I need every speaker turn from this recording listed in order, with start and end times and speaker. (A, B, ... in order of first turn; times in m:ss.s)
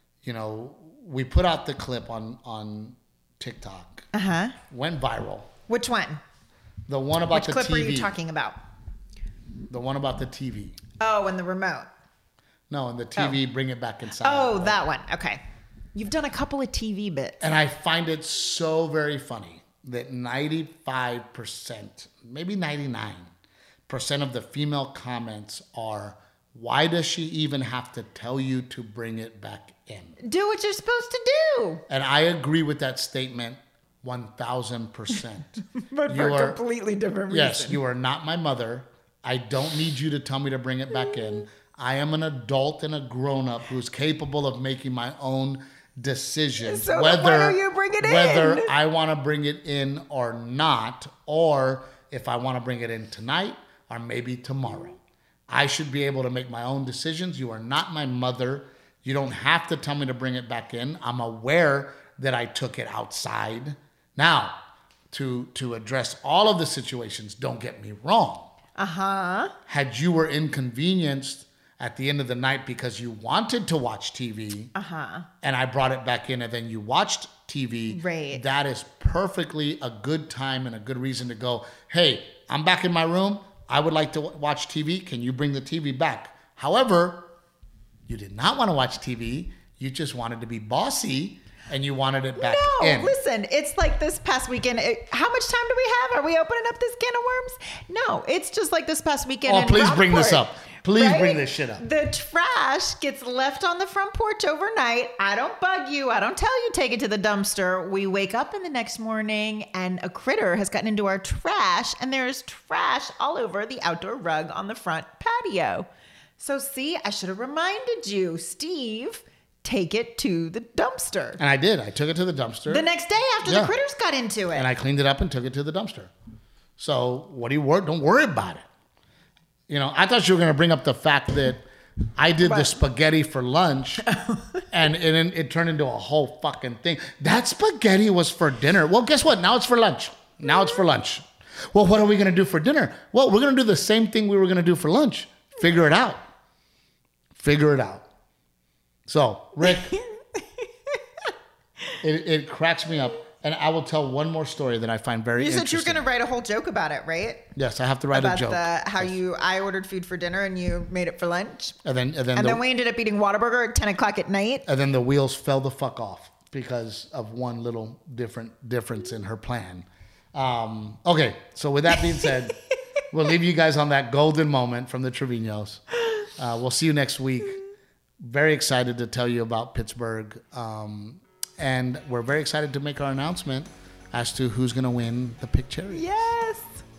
0:00.2-0:04.0 A
0:04.1-0:04.6 B
0:04.7-0:05.5 A
0:05.7-0:06.2 B
0:06.9-0:08.1 A
0:07.3-0:08.6 B
0:09.7-0:10.8 A
0:11.0-0:11.9 B
0:12.7-0:14.8 A
0:14.2-0:15.4 B
0:15.9-0:17.4 B
0:17.4-0:23.3 A
0:23.9-0:30.2 A
0:30.2-0:31.8 B
0:31.9-0:36.6 A
0:35.8-0:37.8 B
0:37.3-0:55.0 A
0:46.6-0:48.7 B
0:55.5-1:04.6 A
1:05.1-1:08.5 A
1:08.8-1:09.5 B
1:09.7-1:14.7 A
1:14.7-1:15.3 B
1:15.4-1:27.3 A
1:17.9-1:18.4 B
1:28.1-1:33.1 A
1:32.4-2:01.4 B
1:39.4-1:41.8 A
2:01.4-2:02.9 A
2:02.7-2:04.7 B
2:03.4-2:03.7 A
2:04.5-2:06.1 A
2:06.8-2:08.7 A
2:09.7-2:11.6 A
2:12.2-2:14.0 A
2:12.4-2:12.7 B
2:14.1-2:14.6 B
2:14.7-2:26.2 A
2:27.3-2:28.0 A
2:29.1-2:30.0 A
2:32.0-2:36.0 A
2:35.4-2:37.5 B
2:37.5-2:39.2 A
2:38.1-2:41.8 B
2:41.8-2:42.6 A
2:42.3-2:44.6 B
2:44.6-2:52.6 A
2:53.1-2:57.6 A
2:58.2-3:06.1 A
3:05.9-3:06.8 B